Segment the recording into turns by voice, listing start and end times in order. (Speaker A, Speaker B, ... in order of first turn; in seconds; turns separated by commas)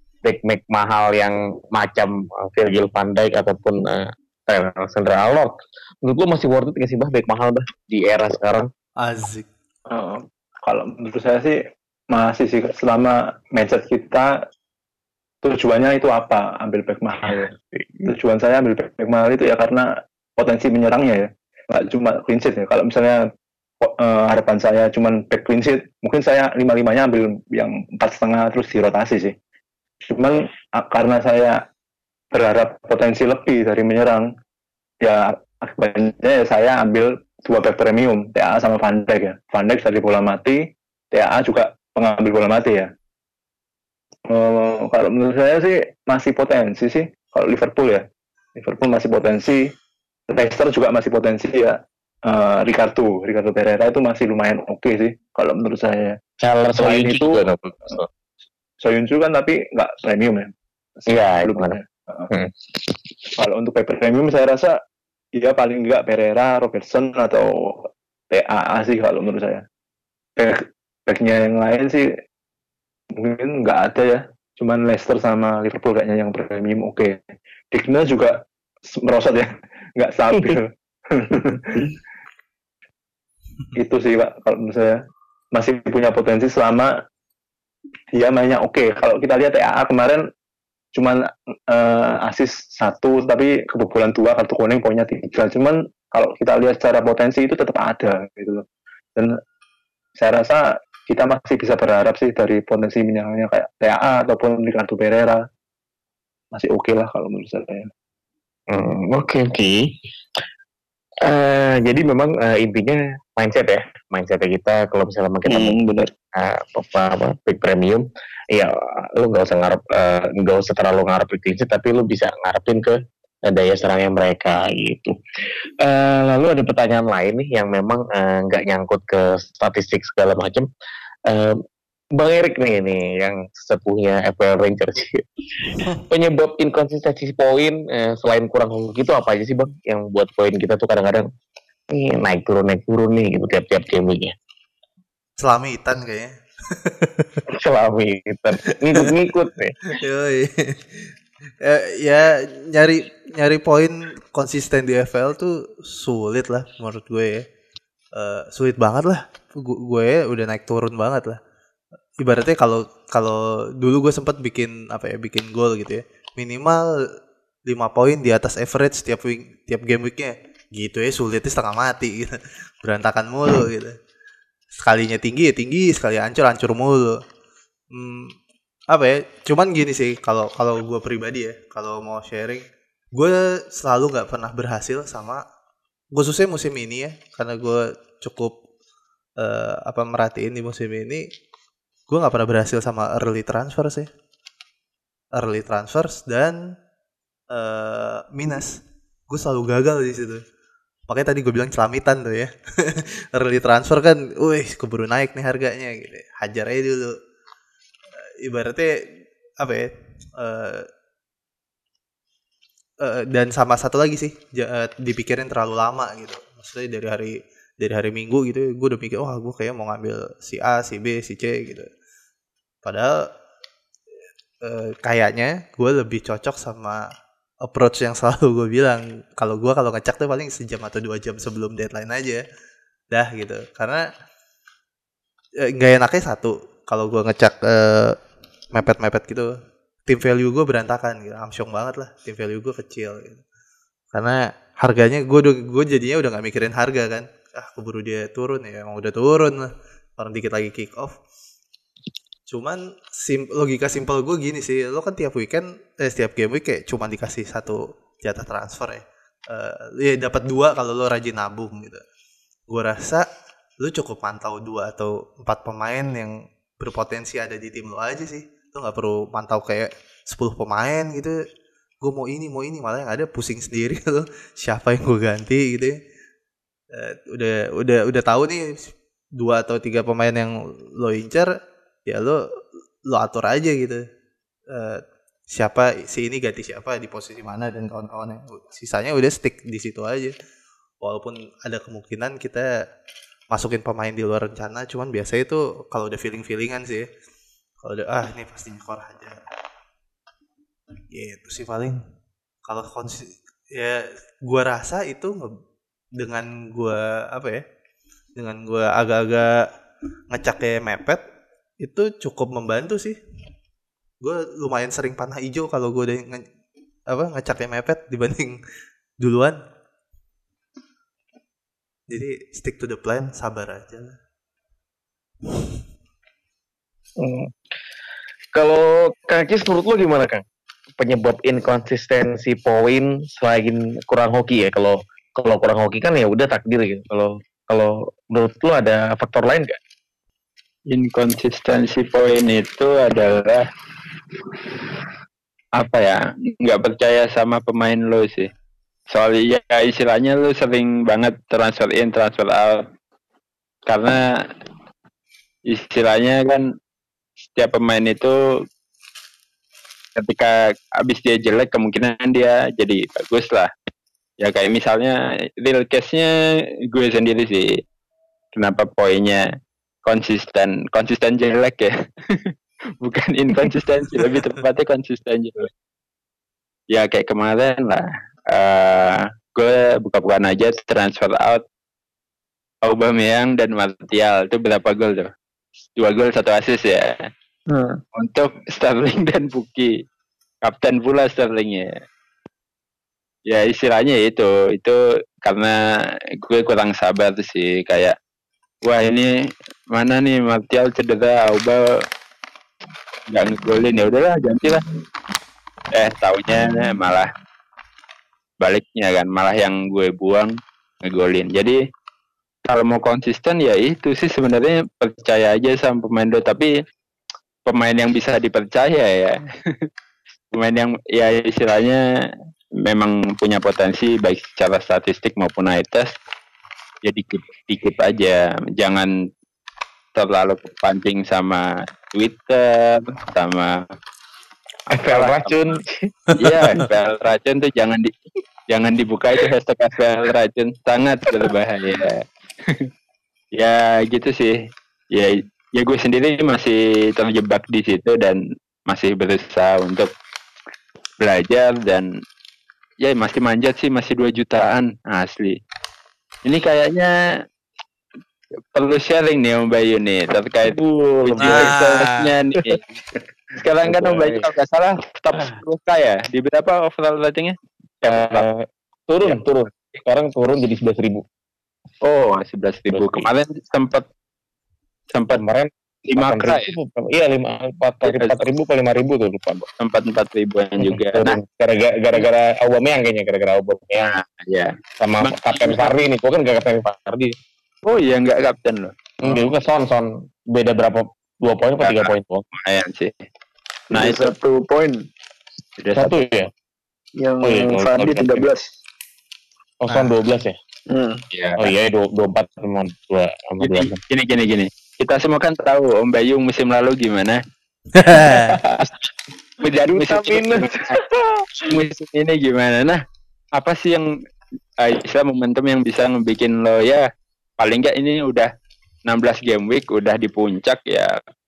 Speaker A: 0.2-5.5, Speaker A: 6.0-8.7, Speaker B: 9.0-9.5, Speaker C: 9.9-11.6, Speaker C: 12.1-14.3, Speaker C: 15.4-17.5, Speaker A: 17.3-18.1, Speaker C: 18.1-23.2, Speaker C: 23.8-29.4, Speaker C: 30.1-31.6, Speaker C: 32.3-34.3, Speaker C: 35.0-42.9, Speaker C: 44.3-48.0, Speaker C: 48.6-49.7, Speaker C: 50.3-56.2, Speaker A: 56.4-58.1, Speaker C: 56.8-57.4, Speaker C: 58.8-62.3, Speaker A: 61.1-61.8, Speaker C: 63.4-64.8, Speaker C: 65.4-69.6, Speaker C: 70.4-72.1, Speaker C: 73.2-81.9, Speaker C: 83.8-85.0, Speaker C: 85.5-86.9, Speaker C: 88.1-90.3, Speaker C: 90.9-99.4, Speaker C: 100.2-105.4, Speaker C: 106.5-107.9, Speaker A: 108.7-109.9, Speaker A: 111.2-115.8, Speaker D: 115.5-116.1, Speaker A: 116.3-125.2, Speaker A: 125.8-130.7, Speaker A: 131.3-131.6, Speaker A: 132.2-141.3, Speaker A: 141.9-144.3, Speaker B: 145.4-147.3, Speaker A: 147.5-149.8, Speaker B: 148.7-149.1, Speaker B: 149.9-157.4, Speaker B: 158.2-161.4, Speaker B: 162.2-166.9, Speaker B: 167.7-173.9, Speaker B: 174.8-177.2, Speaker B: 177.9-178.3, Speaker B: 178.9-185.4, Speaker B: 186.1-188.6, Speaker B: 189.4-191.3, Speaker B: 192.1-194.1, Speaker B: 195.3-196.6, Speaker B: 197.5-200.4, Speaker B: 201.1-207.1, Speaker B: 208.2-208.9, Speaker B: 209.6-210.9, Speaker B: 213.0-221.9, Speaker B: 222.8-223.3, Speaker B: 224.6-227.1, Speaker B: 227.6-232.4, Speaker B: 233.1-234.1, Speaker B: 235.6-238.2, Speaker B: 238.7-239.6, Speaker B: 240.1-243.4, Speaker B: 244.1-251.2, Speaker B: 252.5-262.0, Speaker B: 262.7-263.3, Speaker B: 263.8-271.4, Speaker B: 272.0-276.0, Speaker B: 276.9-281.5, Speaker B: 282.1-282.4, Speaker B: 283.1-284.0, Speaker B: 284.7-285.0, Speaker B: 285.5-290.4, Speaker B: 291.0-292.7, Speaker B: 293.5-297.1, Speaker B: 297.8-299.4, Speaker B: 301.1-302.0, Speaker B: 302.7-305.5, Speaker B: 306.2-307.6, Speaker B: 308.4-309.6, Speaker B: 310.3-311.2, Speaker B: 311.8-313.2, Speaker B: 314.2-316.5, Speaker B: 317.1-318.6, Speaker B: 319.2-319.6, Speaker B: 322.1-324.2, Speaker A: 327.2-327.5, Speaker A: 328.6-330.4, Speaker A: 331.0-339.8, Speaker E: 340.9-343.7, Speaker E: 345.8-348.5, Speaker E: 349.1-352.9, Speaker E: 353.9-354.4, Speaker E: 355.7-356.7, Speaker E: 357.4-358.4, Speaker E: 360.2-363.7, Speaker E: 364.4-366.3, Speaker E: 366.9-367.8, Speaker E: 368.5-369.5, Speaker E: 370.1-375.7, Speaker E: 376.9-381.6, Speaker E: 382.8-385.3, Speaker E: 386.0-387.3, Speaker D: 387.7-388.0, Speaker E: 388.1-389.9, Speaker E: 390.6-391.9, Speaker E: 393.5-395.8, Speaker E: 396.4-398.2, Speaker E: 398.9-399.3, Speaker E: 399.9-401.9, Speaker E: 403.3-404.8, Speaker E: 405.9-407.3, Speaker E: 408.6-411.8, Speaker E: 412.7-416.7, Speaker E: 417.7-419.9, Speaker E: 420.5-422.0, Speaker E: 422.8-426.2, Speaker E: 427.0-429.1, Speaker E: 430.1-433.8, Speaker A: 434.9-436.1, Speaker E: 434.9-435.6, Speaker B: 436.3-436.6, Speaker E: 436.4-438.1, Speaker E: 438.7-442.9, Speaker E: 443.6-444.6, Speaker E: 445.1-450.1, Speaker E: 451.2-452.1, Speaker E: 453.0-455.6, Speaker E: 456.4-457.2, Speaker E: 458.7-462.9, Speaker A: 460.7-461.7, Speaker B: 461.4-462.3, Speaker E: 463.6-467.6, Speaker A: 463.9-464.5, Speaker A: 465.3-465.6, Speaker A: 468.0-471.2, Speaker E: 468.1-468.5, Speaker E: 472.0-474.1, Speaker A: 472.9-473.3, Speaker E: 475.1-475.4, Speaker A: 475.3-479.7, Speaker E: 476.1-476.7, Speaker E: 478.0-478.4, Speaker E: 479.8-481.4, Speaker A: 480.8-484.1, Speaker E: 484.2-485.9, Speaker A: 485.0-487.3, Speaker E: 487.8-489.5, Speaker A: 489.2-492.4, Speaker E: 491.8-493.2, Speaker E: 493.9-494.3, Speaker D: 493.9-495.1, Speaker E: 495.8-496.2, Speaker A: 495.9-496.5, Speaker D: 497.2-498.7, Speaker A: 497.4-498.4, Speaker A: 499.8-500.6, Speaker D: 500.9-501.2, Speaker E: 501.3-501.7, Speaker A: 501.6-504.0, Speaker E: 503.6-507.4, Speaker B: 508.0-508.6, Speaker A: 508.2-508.9, Speaker E: 509.6-511.0, Speaker A: 509.8-511.7, Speaker E: 511.6-513.0, Speaker E: 513.6-514.1, Speaker E: 514.8-517.1, Speaker E: 517.6-518.5, Speaker E: 519.1-521.2